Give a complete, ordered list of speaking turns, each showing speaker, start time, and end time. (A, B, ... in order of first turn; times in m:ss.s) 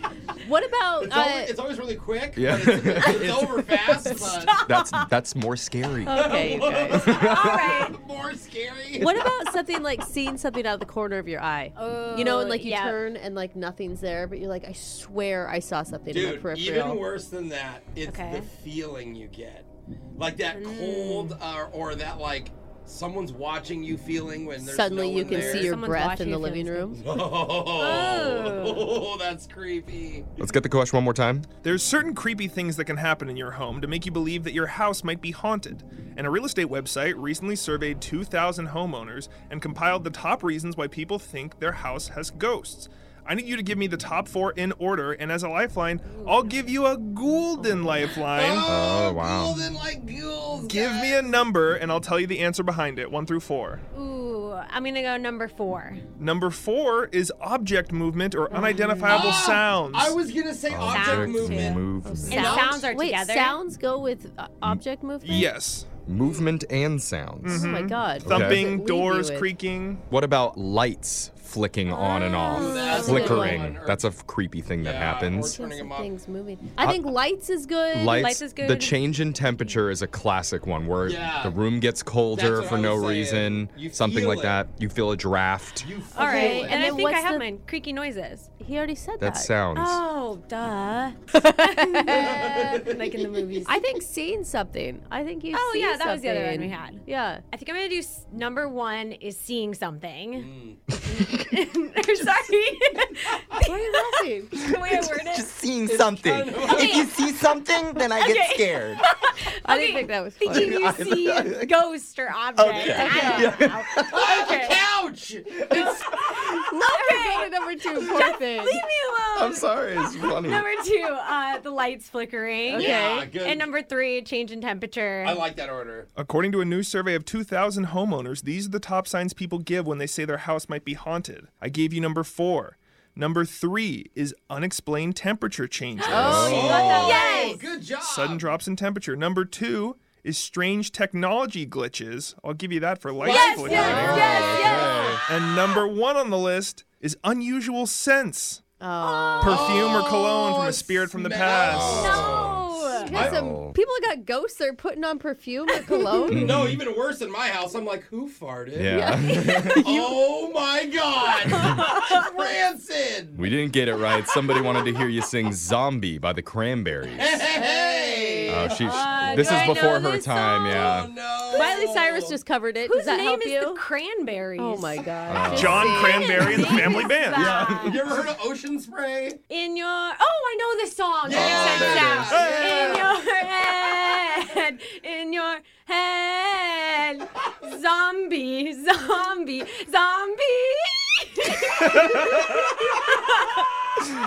0:00.4-0:01.5 A
0:01.0-0:04.6 B
0:02.4-0:03.6 C
0:04.0-0:04.3 A
0:04.1-0:07.5 C
0:04.6-0:04.9 D
0:06.0-0:07.2 A
0:06.1-0:09.1 B
0:07.0-0:08.0 D
0:09.0-0:17.0 A
0:11.8-0:13.0 D
0:16.1-0:25.8 B
0:18.0-0:18.5 D
0:20.5-0:21.4 D
0:24.6-0:27.0 A
0:25.3-0:26.9 D
0:26.9-0:30.3 B
0:27.7-0:28.9 D
0:30.4-0:31.5 C
0:31.6-0:48.7 E
0:46.1-0:46.7 D
0:48.3-0:51.3 B
0:48.6-0:49.7 C
0:50.6-0:53.8 E
0:53.9-0:56.0 D
0:56.2-1:00.2 E
0:58.5-0:59.2 D
0:59.0-1:02.9 B
1:00.7-1:02.5 C
1:00.9-1:03.6 D
1:02.0-1:05.5 A
1:05.2-1:05.9 E
1:06.1-1:08.6 C
1:07.4-1:10.0 E
1:07.4-1:09.5 A
1:10.1-1:15.6 C
1:11.9-1:13.5 D
1:12.5-1:14.1 B
1:12.5-1:13.6 A
1:14.8-1:16.1 B
1:15.3-1:18.3 A
1:16.8-1:17.1 C
1:17.9-1:25.9 C
1:18.1-1:19.1 D
1:21.0-1:21.6 B
1:22.3-1:24.6 B
1:25.8-1:27.0 B
1:26.1-1:28.5 D
1:26.2-1:27.5 A
1:28.6-1:29.5 A
1:29.2-1:30.0 C
1:29.7-1:33.8 D
1:31.3-1:32.6 A
1:32.1-1:32.9 B
1:33.6-1:37.4 A
1:35.5-1:40.5 D
1:40.3-1:40.8 B
1:41.0-1:45.5 D
1:41.1-1:41.4 C
1:42.2-1:42.5 C
1:43.6-1:44.6 A
1:44.5-1:49.0 C
1:45.9-1:47.1 B
1:46.6-1:47.1 D
1:48.0-1:54.8 D
1:49.6-1:50.9 A
1:50.5-1:51.7 C
1:52.6-1:54.3 C
1:52.6-1:53.0 B
1:52.9-1:53.6 A
1:54.1-1:56.1 B
1:55.6-1:56.6 C
1:56.2-2:05.4 D
1:56.7-1:58.9 A
1:59.3-2:00.6 C
2:02.7-2:03.3 A
2:02.7-2:03.7 B
2:05.2-2:06.1 B
2:06.2-2:16.6 E
2:16.0-2:17.6 D
2:16.1-2:17.5 A
2:16.1-2:16.9 C
2:16.4-2:18.5 B
2:18.0-2:24.3 E
2:23.2-2:25.0 B
2:23.2-2:25.2 D
2:23.6-2:25.2 C
2:23.8-2:24.9 A
2:25.3-2:28.6 E
2:28.8-2:31.1 A
2:29.0-2:29.4 D
2:29.4-2:32.0 E
2:29.4-2:30.2 B
2:31.1-2:32.6 B
2:31.6-2:33.8 C
2:31.7-2:33.3 D
2:32.0-2:36.5 A
2:35.8-2:36.1 D
2:36.2-2:38.9 B
2:36.3-2:36.8 C
2:38.8-2:39.8 C
2:38.8-2:40.2 A
2:39.8-2:43.5 B
2:41.7-2:42.2 D
2:43.3-2:47.3 C
2:47.1-2:49.9 B
2:47.4-2:48.9 A
2:48.5-2:51.1 C
2:48.7-2:51.0 D
2:50.6-2:52.3 B
2:51.5-2:55.0 D
2:51.5-2:53.8 A
2:54.6-2:57.2 A
2:55.3-2:56.2 C
2:55.5-2:58.0 E
2:55.9-2:58.0 D
2:57.3-2:59.4 B
2:59.5-3:13.7 D
3:01.2-3:03.2 B
3:01.3-3:02.4 C
3:02.2-3:02.7 E